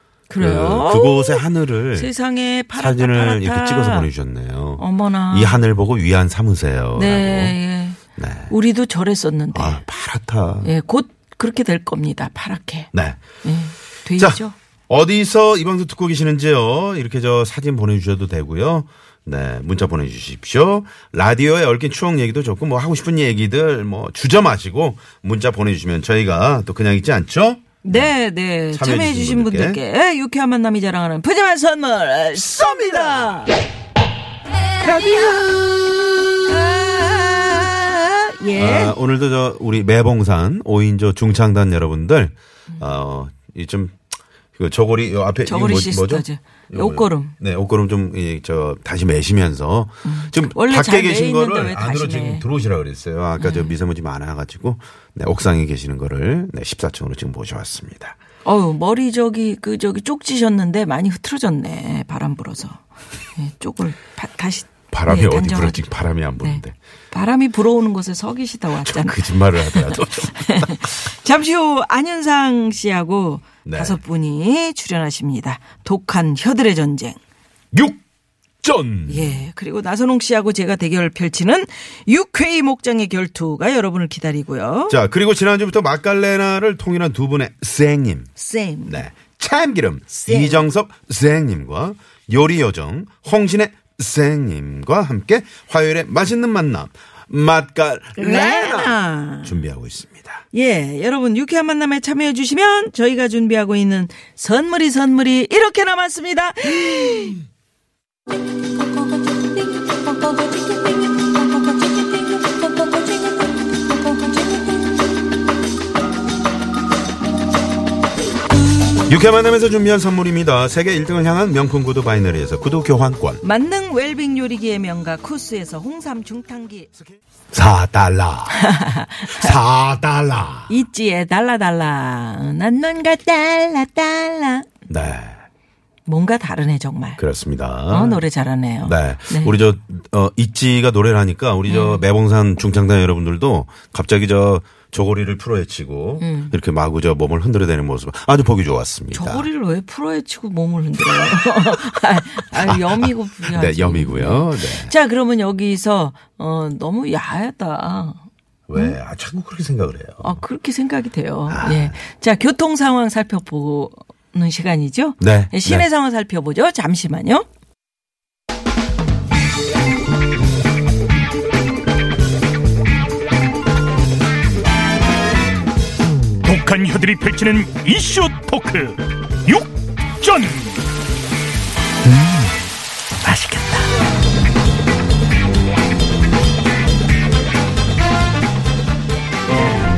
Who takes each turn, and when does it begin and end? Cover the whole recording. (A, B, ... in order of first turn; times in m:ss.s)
0:00.3-0:04.1 A
0:00.4-0:02.1 B
0:02.8-0:07.6 B
0:04.8-0:05.6 A
0:07.0-0:09.8 A
0:08.2-0:08.5 B
0:09.5-0:10.7 B
0:10.6-0:12.9 A
0:12.9-0:13.2 B
0:13.4-0:14.5 A
0:14.2-0:28.1 B
0:27.8-0:33.5 A
0:28.7-0:29.8 B
0:34.8-0:35.6 A
0:36.5-0:39.0 A
0:38.6-0:44.0 B
0:44.6-0:58.2 B
0:45.4-0:47.3 A
0:50.0-0:52.5 A
0:53.4-0:53.7 A
0:58.4-1:02.8 A
1:03.3-1:17.2 A
1:04.9-1:06.8 B
1:08.8-1:10.6 B
1:13.6-1:14.0 B
1:17.7-1:18.0 B
1:18.6-1:19.4 B
1:19.1-1:25.0 A
1:24.9-1:28.3 B
1:28.4-1:29.0 A
1:28.9-1:40.4 B
1:30.1-1:30.7 A
1:38.2-1:39.6 A
1:40.5-1:47.4 A
1:59.1-2:03.4 B
2:03.4-2:06.9 A
2:07.5-2:08.6 B
2:08.5-2:09.6 A
2:09.2-2:10.8 B
2:10.7-2:14.7 A
2:14.9-2:15.4 B
2:16.0-2:17.2 A
2:17.2-2:18.2 B
2:17.9-2:19.6 A
2:18.8-2:29.5 B
2:21.7-2:22.0 A
2:26.2-2:26.5 A
2:29.1-2:39.0 A
2:32.5-2:34.9 B
2:38.7-2:40.4 B
2:40.2-2:47.4 A
2:41.5-2:42.0 B
2:45.2-2:45.9 B
2:56.4-3:00.8 C